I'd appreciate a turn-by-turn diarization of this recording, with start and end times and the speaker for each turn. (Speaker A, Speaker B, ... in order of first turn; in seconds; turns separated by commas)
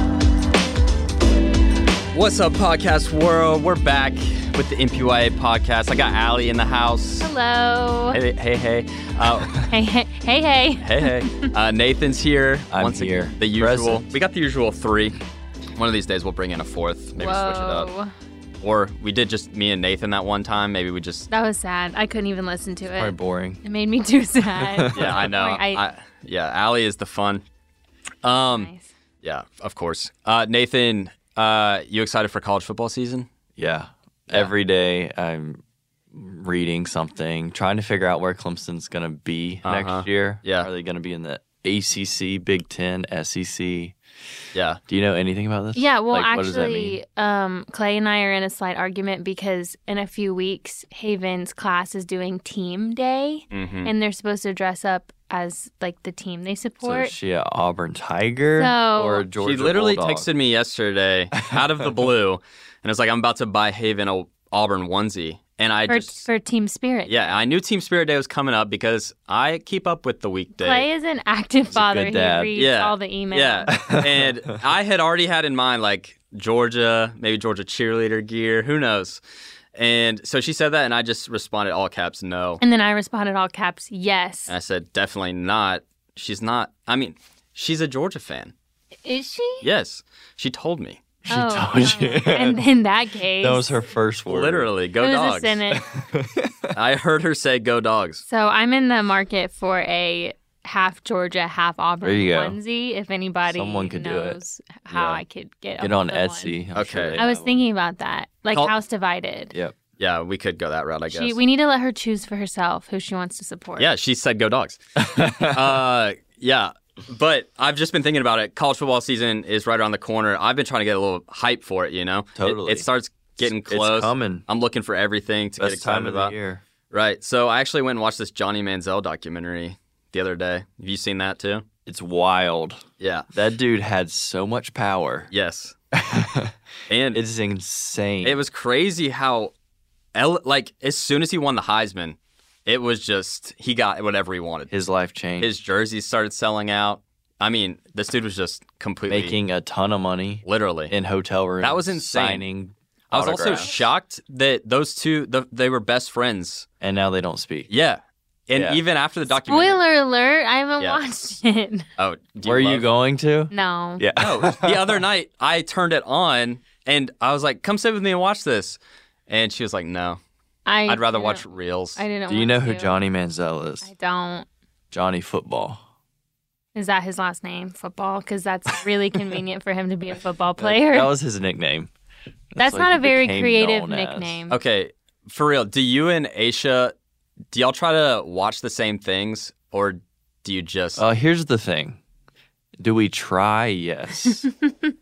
Speaker A: 2.1-7.3, Speaker B: 7.2-8.2, Speaker A: 8.1-9.7, Speaker B: 9.6-11.5, Speaker A: 10.8-15.2, Speaker C: 12.7-14.1, Speaker A: 15.8-17.9, Speaker B: 17.2-18.1, Speaker A: 18.6-21.3, Speaker B: 21.3-25.8, Speaker C: 22.9-23.6, Speaker C: 24.5-25.2, Speaker A: 24.9-27.4, Speaker A: 28.2-28.7, Speaker B: 28.5-28.9, Speaker A: 29.2-33.3, Speaker C: 33.6-44.0, Speaker A: 39.6-40.7, Speaker A: 44.5-44.8, Speaker C: 44.9-47.0, Speaker B: 45.8-57.1, Speaker A: 53.5-53.9, Speaker C: 56.8-60.3, Speaker B: 58.5-59.2, Speaker A: 59.4-66.3, Speaker C: 61.4-62.1, Speaker B: 65.9-67.4, Speaker A: 67.1-70.9, Speaker B: 70.6-73.7, Speaker C: 71.7-72.5, Speaker A: 72.5-79.2, Speaker C: 73.7-74.3, Speaker A: 79.7-82.6, Speaker B: 82.6-84.5, Speaker A: 84.5-88.5, Speaker B: 89.0-89.7, Speaker A: 89.6-91.0, Speaker C: 91.2-92.6, Speaker B: 91.3-93.6, Speaker C: 93.4-94.7, Speaker A: 94.3-95.6, Speaker B: 95.0-95.8, Speaker C: 95.7-96.8, Speaker A: 96.7-98.2, Speaker B: 98.3-106.6, Speaker C: 102.0-102.6, Speaker C: 103.5-104.4, Speaker C: 104.9-105.2, Speaker C: 105.8-107.6, Speaker A: 106.7-107.2, Speaker B: 107.2-109.5, Speaker A: 110.0-111.4, Speaker B: 111.1-113.9, Speaker A: 113.8-126.3, Speaker C: 115.0-115.8, Speaker C: 122.3-122.8, Speaker C: 123.4-124.4, Speaker C: 125.6-126.6, Speaker A: 126.9-131.6, Speaker C: 131.8-135.3, Speaker A: 133.0-133.2, Speaker A: 135.3-135.7, Speaker C: 135.9-136.5, Speaker A: 136.9-137.2, Speaker C: 137.1-138.4, Speaker A: 138.2-139.5, Speaker A: 140.1-144.7, Speaker C: 144.7-145.5, Speaker A: 145.4-149.3, Speaker C: 149.1-153.8, Speaker A: 150.4-150.9, Speaker A: 151.6-152.4, Speaker A: 153.1-156.7, Speaker C: 156.8-157.7, Speaker A: 157.7-159.8, Speaker C: 158.5-158.8, Speaker B: 159.4-161.9, Speaker A: 162.0-162.9, Speaker C: 162.4-165.0, Speaker B: 163.5-164.0, Speaker A: 164.2-170.2, Speaker B: 170.7-171.4, Speaker A: 170.8-172.0, Speaker B: 171.9-172.9, Speaker C: 172.3-173.9, Speaker B: 173.8-174.5, Speaker C: 174.9-175.8, Speaker B: 176.7-181.1, Speaker C: 180.6-181.9, Speaker C: 182.5-184.4, Speaker B: 182.6-184.6, Speaker A: 184.5-186.9, Speaker A: 187.5-191.0, Speaker C: 191.0-192.0, Speaker C: 192.8-194.5